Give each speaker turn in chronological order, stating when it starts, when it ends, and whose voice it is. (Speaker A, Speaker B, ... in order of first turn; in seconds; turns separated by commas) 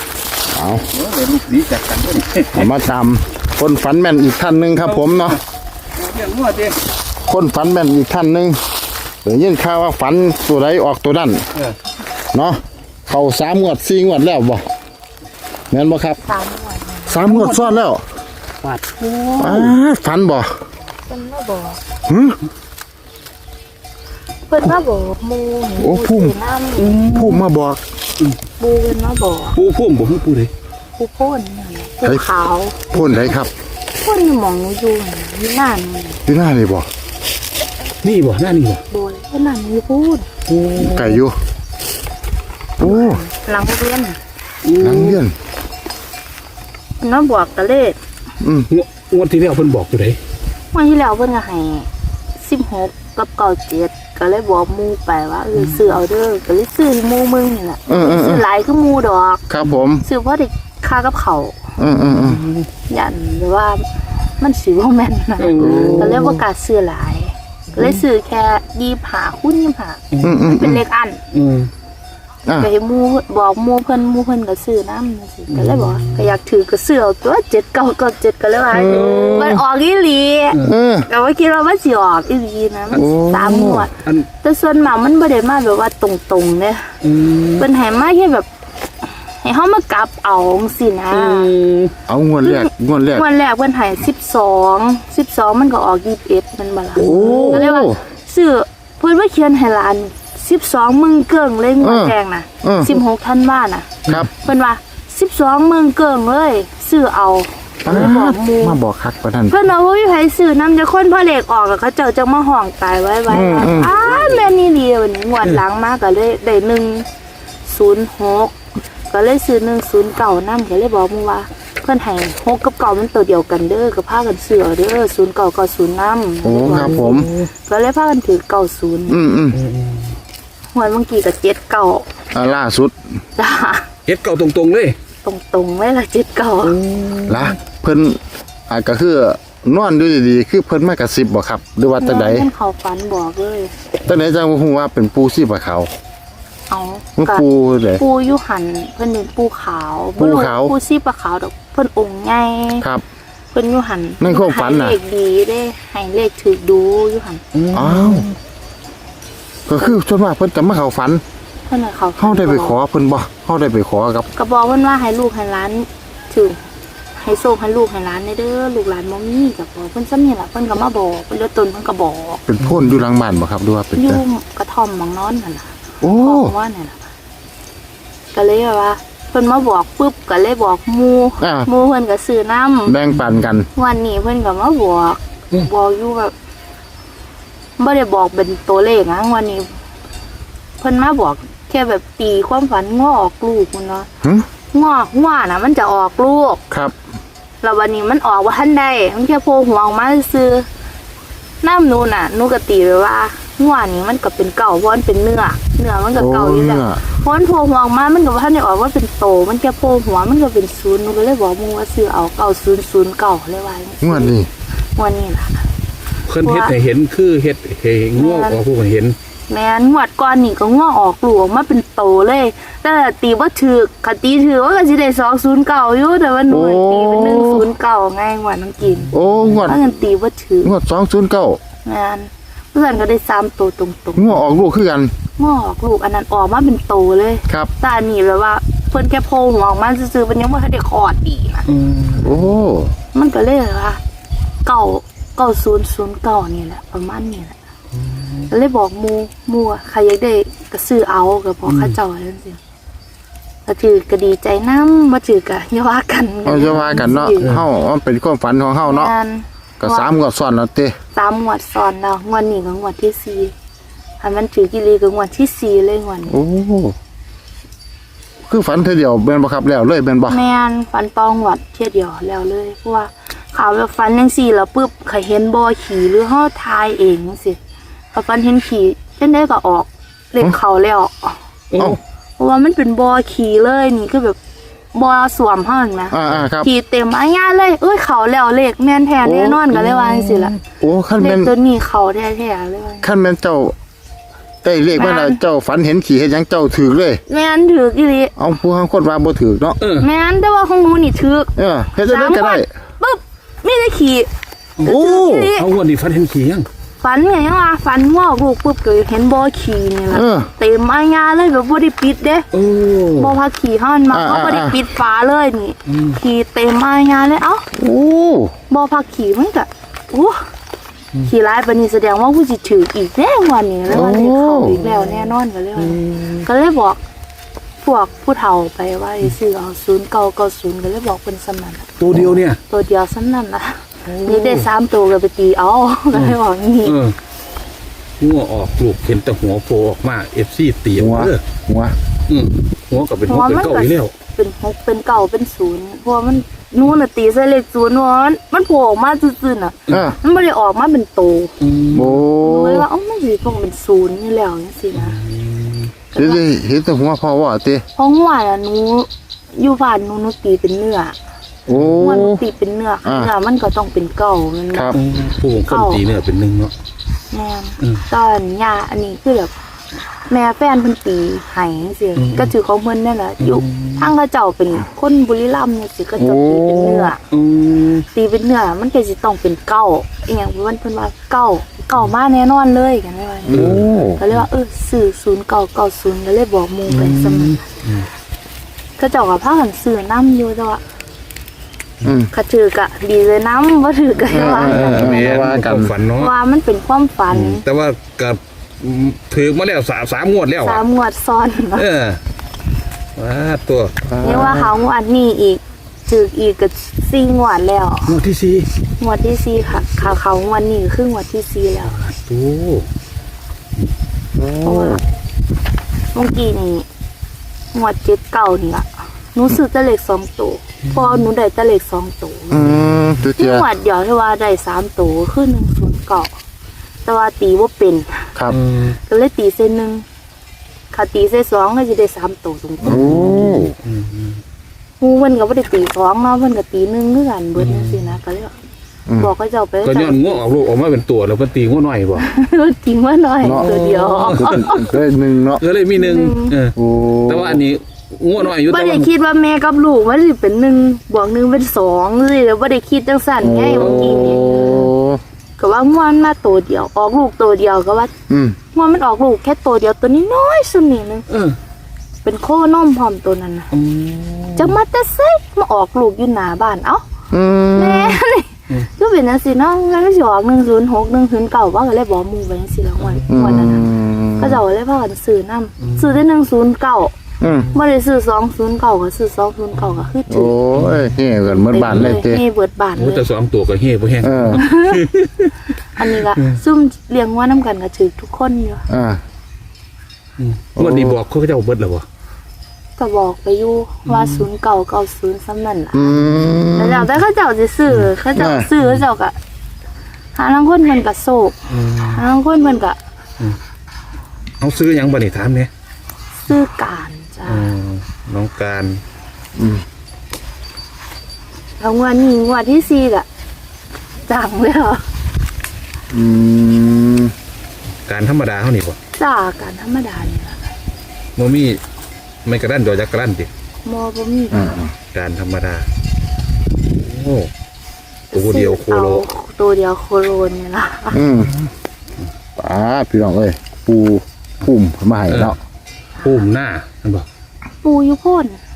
Speaker A: 0.5-0.9, Speaker B: 0.9-2.8, Speaker A: 2.5-5.4, Speaker B: 4.8-5.4, Speaker B: 6.0-6.8, Speaker A: 7.3-8.6, Speaker A: 9.2-11.4, Speaker A: 12.3-14.6, Speaker A: 15.7-16.2, Speaker C: 16.2-17.2, Speaker A: 17.1-18.0, Speaker B: 17.2-17.8, Speaker B: 18.6-19.8, Speaker A: 19.4-20.5, Speaker C: 21.1-21.8, Speaker A: 22.1-22.4, Speaker C: 24.5-26.9, Speaker A: 25.8-26.3, Speaker B: 26.8-27.4, Speaker A: 27.1-27.8, Speaker C: 28.6-29.6, Speaker B: 29.5-30.5, Speaker C: 31.0-32.8, Speaker A: 32.9-33.5, Speaker B: 33.0-33.3, Speaker C: 34.0-36.2, Speaker A: 36.2-36.9, Speaker B: 38.0-38.8, Speaker C: 38.9-40.3, Speaker B: 40.5-41.2, Speaker A: 40.8-41.4, Speaker A: 42.8-43.2, Speaker C: 42.8-44.2, Speaker B: 44.6-45.2, Speaker A: 44.8-45.3, Speaker C: 47.0-48.0, Speaker A: 48.4-48.7, Speaker B: 48.7-50.2, Speaker C: 50.7-59.4, Speaker A: 57.9-58.4, Speaker A: 59.5-60.0, Speaker C: 60.0-61.7, Speaker A: 61.8-62.5, Speaker B: 61.9-62.7, Speaker C: 62.9-63.9, Speaker C: 64.4-71.2, Speaker B: 65.4-66.3, Speaker A: 65.6-66.4, Speaker B: 70.1-70.4, Speaker A: 70.2-70.8, Speaker B: 71.3-71.7, Speaker C: 72.5-87.0, Speaker B: 75.5-76.3, Speaker A: 78.7-79.6, Speaker B: 78.8-79.6, Speaker A: 80.6-81.1, Speaker A: 82.9-83.9, Speaker B: 87.0-87.7, Speaker C: 87.6-88.5, Speaker C: 89.3-91.5, Speaker B: 91.1-91.9, Speaker A: 92.1-93.2, Speaker C: 92.4-108.8, Speaker B: 97.0-97.6, Speaker A: 97.0-98.0, Speaker A: 101.8-103.0, Speaker A: 107.8-109.6, Speaker C: 109.5-117.1, Speaker A: 113.3-113.9, Speaker B: 113.7-114.4, Speaker C: 117.6-118.5, Speaker C: 119.1-129.2, Speaker A: 126.4-127.3, Speaker B: 126.5-127.5, Speaker A: 129.1-129.6, Speaker B: 129.5-130.1, Speaker C: 130.7-132.1, Speaker A: 132.3-132.9, Speaker C: 133.4-133.9, Speaker B: 134.1-134.9, Speaker C: 135.2-136.8, Speaker B: 136.6-137.6, Speaker A: 137.3-142.5, Speaker C: 142.0-143.7, Speaker A: 144.1-145.9, Speaker C: 146.7-147.4, Speaker A: 147.2-148.0, Speaker C: 148.0-152.9, Speaker A: 150.2-150.7, Speaker C: 153.5-157.4, Speaker A: 154.2-155.0, Speaker B: 157.5-158.3, Speaker A: 157.7-158.3, Speaker A: 159.7-161.2, Speaker C: 161.7-162.8, Speaker A: 162.2-164.3, Speaker C: 164.3-166.6, Speaker C: 167.2-172.4, Speaker A: 172.5-174.2, Speaker B: 172.6-172.9, Speaker C: 173.9-177.0, Speaker A: 176.0-176.5, Speaker C: 178.3-183.0, Speaker A: 181.4-181.7, Speaker A: 182.8-183.7, Speaker C: 183.7-186.3, Speaker C: 187.8-189.7, Speaker C: 190.8-194.1, Speaker C: 194.7-196.6, Speaker A: 196.7-196.9, Speaker C: 197.6-200.7, Speaker C: 201.6-214.4, Speaker A: 206.1-207.0, Speaker A: 214.0-214.5, Speaker C: 214.9-215.7, Speaker B: 216.3-219.2, Speaker C: 216.4-216.7, Speaker C: 218.2-218.6, Speaker C: 219.5-229.1, Speaker A: 226.5-227.7, Speaker A: 229.1-229.8, Speaker B: 229.2-229.7, Speaker C: 229.6-230.7, Speaker A: 230.6-231.6, Speaker C: 231.8-234.4, Speaker A: 234.2-235.1, Speaker C: 235.4-241.7, Speaker B: 241.7-242.4, Speaker A: 242.2-242.9, Speaker C: 243.1-244.0, Speaker C: 244.6-247.6, Speaker B: 248.1-248.5, Speaker C: 248.5-252.6, Speaker B: 251.7-251.9, Speaker C: 253.7-257.6, Speaker A: 256.4-259.1, Speaker B: 256.7-257.6, Speaker C: 258.8-260.1, Speaker A: 259.8-260.9, Speaker C: 261.1-263.5, Speaker C: 264.2-266.4, Speaker A: 266.3-266.9, Speaker A: 268.5-270.4, Speaker C: 270.3-277.6, Speaker C: 278.1-281.4, Speaker B: 281.7-282.0, Speaker C: 282.4-284.4, Speaker C: 284.9-290.6, Speaker A: 286.1-286.7, Speaker A: 289.2-289.8, Speaker B: 289.8-290.5, Speaker A: 290.7-291.5, Speaker C: 291.2-293.1, Speaker A: 293.0-293.7, Speaker A: 294.6-297.2, Speaker C: 294.9-295.4, Speaker C: 297.3-298.3, Speaker A: 298.4-299.8, Speaker B: 299.8-300.1, Speaker C: 300.0-304.3, Speaker A: 301.6-302.7, Speaker A: 304.8-305.5, Speaker C: 304.8-305.7, Speaker B: 305.5-306.7, Speaker C: 307.0-312.5, Speaker A: 310.1-310.5, Speaker B: 312.5-313.4, Speaker C: 313.1-317.7, Speaker A: 314.1-314.8, Speaker B: 315.9-316.2, Speaker A: 317.7-318.5, Speaker C: 318.7-320.4, Speaker C: 321.2-327.0, Speaker A: 323.9-324.9, Speaker B: 325.8-326.4, Speaker C: 327.8-331.9, Speaker B: 332.0-332.6, Speaker C: 332.7-337.0, Speaker B: 334.1-334.7, Speaker B: 336.1-337.1, Speaker B: 338.2-341.4, Speaker A: 340.9-341.9, Speaker B: 342.3-344.1, Speaker C: 343.3-351.5, Speaker A: 349.9-350.1, Speaker B: 351.6-352.2, Speaker A: 351.9-352.9, Speaker C: 352.4-355.2, Speaker B: 354.9-355.9, Speaker C: 356.1-356.4, Speaker A: 356.1-357.8, Speaker C: 357.9-361.1, Speaker A: 361.7-362.4, Speaker B: 361.7-362.1, Speaker C: 362.0-365.0, Speaker A: 363.0-363.3, Speaker B: 364.9-366.7, Speaker C: 365.6-366.1, Speaker C: 367.3-369.5, Speaker C: 370.3-377.2, Speaker B: 372.1-372.5, Speaker B: 373.4-374.1, Speaker A: 376.2-377.1, Speaker B: 377.3-378.1, Speaker C: 378.1-387.6, Speaker A: 383.4-384.2, Speaker B: 383.5-384.4, Speaker B: 386.9-388.1, Speaker C: 389.0-390.8, Speaker A: 392.0-392.3, Speaker C: 392.3-395.4, Speaker A: 394.3-395.9, Speaker B: 394.6-396.3, Speaker C: 396.2-397.6, Speaker B: 397.3-400.8, Speaker C: 400.6-401.9, Speaker B: 401.8-402.2, Speaker B: 403.1-404.0, Speaker A: 404.1-404.7, Speaker C: 404.2-408.2, Speaker B: 408.1-408.7, Speaker C: 409.0-412.0, Speaker B: 411.9-412.9, Speaker A: 414.3-415.0, Speaker C: 414.6-415.0, Speaker C: 416.1-416.9, Speaker C: 417.7-422.7, Speaker B: 420.9-421.2, Speaker A: 422.5-423.6, Speaker B: 422.6-423.3, Speaker C: 423.4-426.3, Speaker C: 427.1-428.3, Speaker B: 428.5-429.0, Speaker C: 429.1-430.0, Speaker C: 430.9-433.1, Speaker A: 432.8-433.7, Speaker B: 432.8-434.4, Speaker C: 435.0-438.5, Speaker B: 437.6-438.2, Speaker C: 439.2-440.6, Speaker B: 439.8-442.3, Speaker C: 442.1-444.9, Speaker A: 443.4-445.6, Speaker B: 443.4-444.9, Speaker B: 445.6-449.1, Speaker C: 445.9-446.6, Speaker A: 446.8-447.6, Speaker C: 448.4-454.9, Speaker A: 453.4-455.2, Speaker B: 453.8-454.9, Speaker C: 455.6-458.1, Speaker A: 458.3-458.6, Speaker C: 458.7-461.3, Speaker B: 461.3-461.6, Speaker C: 462.2-463.7, Speaker B: 463.7-464.8, Speaker C: 464.6-467.0, Speaker A: 467.3-468.2, Speaker C: 467.7-477.1, Speaker B: 473.0-473.5, Speaker A: 473.3-474.6, Speaker B: 475.8-476.2, Speaker A: 477.4-477.7, Speaker B: 477.4-477.7, Speaker C: 477.7-480.6, Speaker A: 480.3-482.4, Speaker B: 480.7-481.2, Speaker C: 481.6-483.2, Speaker B: 481.8-482.2, Speaker B: 482.9-485.7, Speaker A: 484.2-484.6, Speaker C: 484.5-485.0, Speaker C: 485.9-488.9, Speaker B: 486.3-486.6, Speaker A: 488.9-489.2, Speaker B: 490.4-492.0, Speaker A: 490.8-491.2, Speaker C: 493.0-496.1, Speaker B: 494.1-494.4, Speaker A: 495.9-497.1, Speaker B: 496.0-496.7, Speaker C: 496.8-499.4, Speaker A: 498.4-498.7, Speaker C: 500.3-503.0, Speaker B: 501.7-502.2, Speaker B: 504.6-505.7, Speaker C: 506.4-507.7, Speaker B: 507.5-509.0, Speaker A: 509.6-509.8, Speaker C: 511.8-513.3, Speaker C: 514.3-515.0, Speaker A: 516.1-517.3, Speaker B: 518.0-519.0, Speaker C: 519.2-520.7, Speaker B: 521.4-521.8, Speaker B: 522.4-523.5, Speaker C: 523.8-524.8, Speaker A: 524.5-524.9, Speaker B: 525.1-525.9, Speaker B: 526.9-527.5, Speaker C: 528.3-531.2, Speaker B: 528.3-529.2, Speaker A: 531.1-531.5, Speaker A: 532.6-535.6, Speaker B: 535.3-535.5, Speaker B: 536.2-537.2, Speaker C: 537.8-538.6